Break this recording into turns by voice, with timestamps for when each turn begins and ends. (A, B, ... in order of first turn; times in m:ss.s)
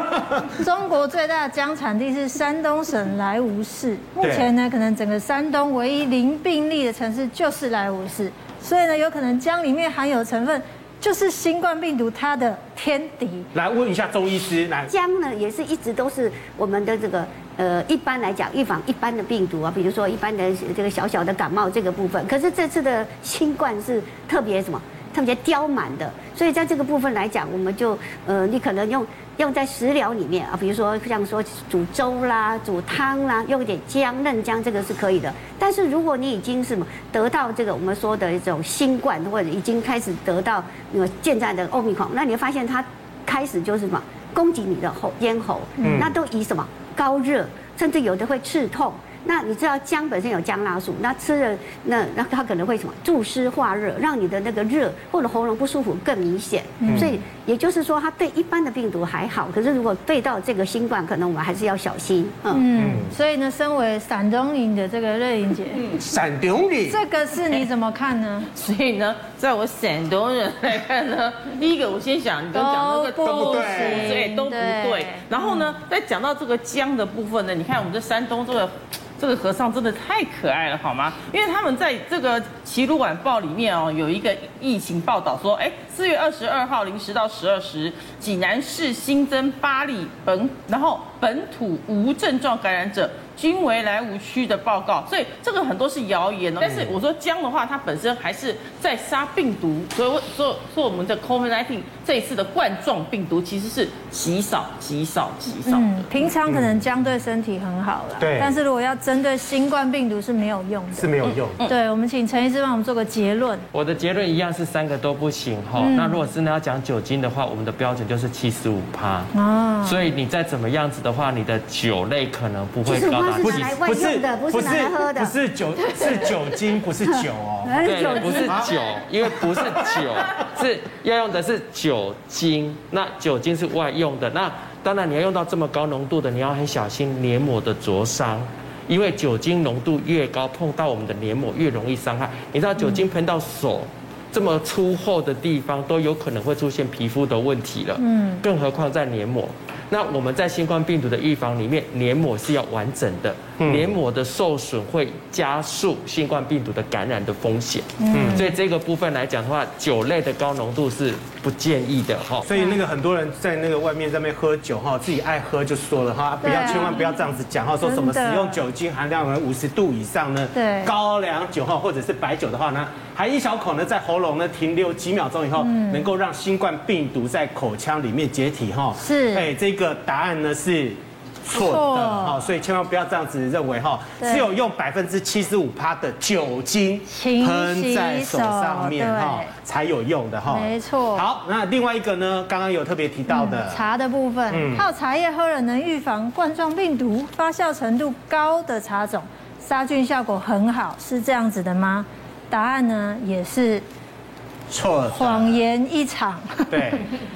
0:00.3-0:13.5 A
0:04.2-0:04.5 B
0:13.6-0:14.9 B
0:14.9-1:02.7 C
0:45.8-0:46.1 B
0:56.8-0:57.1 A
0:56.9-0:57.1 B
1:02.5-1:06.0 A
1:02.8-1:03.1 B
1:05.9-1:07.0 B
1:06.8-1:08.5 A
1:08.5-1:46.1 D
1:12.5-1:15.8 A
1:13.2-1:14.1 B
1:36.6-1:36.9 B
1:45.6-1:51.1 A
1:46.5-1:46.8 B
1:48.2-1:48.6 B
1:50.9-1:51.7 B
1:51.2-1:51.7 D
1:51.6-1:53.6 A
1:53.7-1:59.3 E
1:55.8-1:56.3 A
1:59.3-2:00.0 A
1:59.8-2:03.8 E
2:02.8-2:05.3 C
2:03.4-2:07.8 B
2:07.6-2:08.7 C
2:07.8-2:42.5 E
2:08.4-2:10.0 B
2:28.0-2:28.4 A
2:33.6-2:34.0 B
2:38.0-2:38.5 A
2:38.1-2:38.4 B
2:42.4-3:13.8 B
2:46.4-2:47.3 A
2:47.8-2:48.6 A
2:50.5-2:50.9 A
2:55.6-2:56.1 A
2:59.0-2:59.5 A
3:01.5-3:02.4 A
3:04.2-3:04.5 A
3:07.1-3:09.6 A
3:10.5-3:11.2 A
3:13.3-3:23.8 A
3:14.5-3:14.9 B
3:24.7-3:25.6 B
3:25.1-3:27.0 A
3:26.7-3:27.1 B